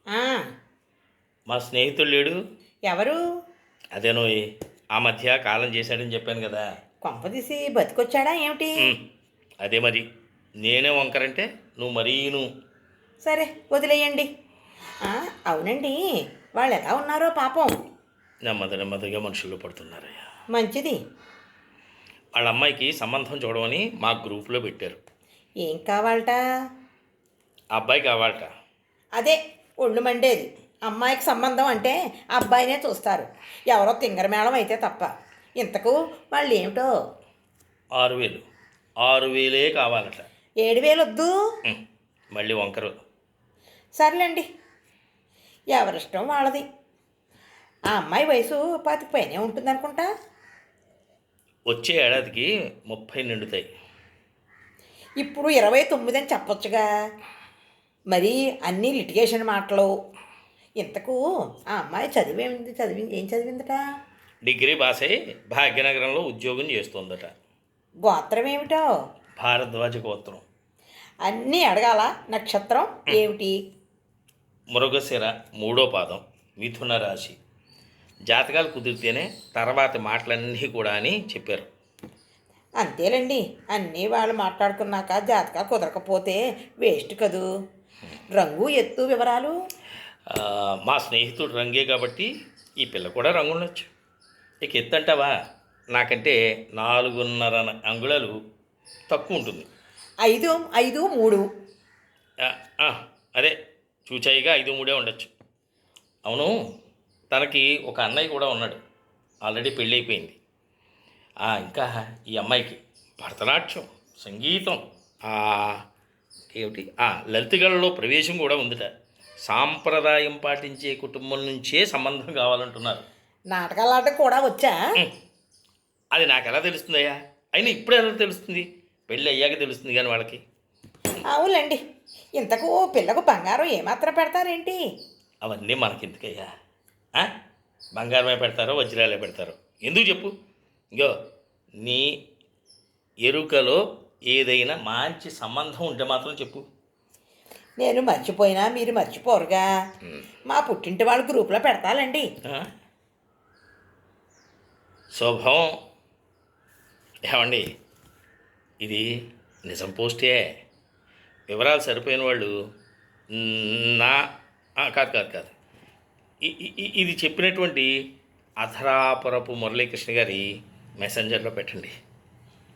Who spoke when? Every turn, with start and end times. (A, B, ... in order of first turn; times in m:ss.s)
0:00.1-0:00.4 A
0:01.5-0:02.4 B
0:02.9-0:03.2 A
0:03.9-0:06.7 B
0:07.0-0:08.8 A
0:09.6-0:10.0 B
0:10.6-0:12.5 B
0:13.2-0:14.3 A
0:15.0-0:16.0 A
0:16.5-0:17.7 A
0:18.4-0:20.2 B
0:20.5-0:21.0 A
0:22.3-0:25.0 B
0:25.6-0:26.4 A
0:27.7-0:28.5 B
0:29.2-0:36.9 A
0:37.9-0:38.4 B
0:39.0-0:40.3 B
0:40.6-0:41.3 A
0:42.3-0:43.0 B
0:44.0-0:44.4 A
0:45.7-0:46.6 A
0:47.9-0:50.1 A
0:51.7-0:53.7 B
0:55.2-0:56.8 A
0:58.1-0:59.9 A
1:00.8-1:01.2 A
1:01.7-1:03.8 A
1:04.4-1:07.3 B
1:08.0-1:08.8 A
1:09.4-1:10.4 B
1:11.2-1:13.6 A
1:14.7-1:17.4 B
1:18.3-1:21.7 B
1:22.8-1:27.4 A
1:28.4-1:29.5 A
1:30.3-1:33.9 B
1:34.6-1:35.3 B
1:35.9-1:38.4 B
1:39.1-1:39.7 B
1:40.2-1:41.4 A
1:42.4-1:45.3 B
1:46.2-1:46.5 B
1:47.3-1:48.8 B
1:49.4-1:50.4 B
1:51.4-1:55.8 B
1:56.5-1:58.9 B
1:59.4-2:03.0 B
2:03.5-2:04.8 A
2:06.1-2:10.4 B
2:11.2-2:11.8 A
2:12.4-2:14.8 A
2:15.4-2:16.5 B
2:18.0-2:20.3 B
2:21.8-2:22.1 B
2:23.2-2:26.6 B
2:27.8-2:29.6 A
2:30.5-2:32.2 A
2:35.1-2:35.8 B
2:37.3-2:37.6 B
2:38.8-2:39.1 B
2:39.6-2:40.4 B
2:41.5-2:42.6 B
2:43.3-2:44.2 B
2:44.8-2:45.5 B
2:46.4-2:47.9 B
2:48.6-2:51.9 B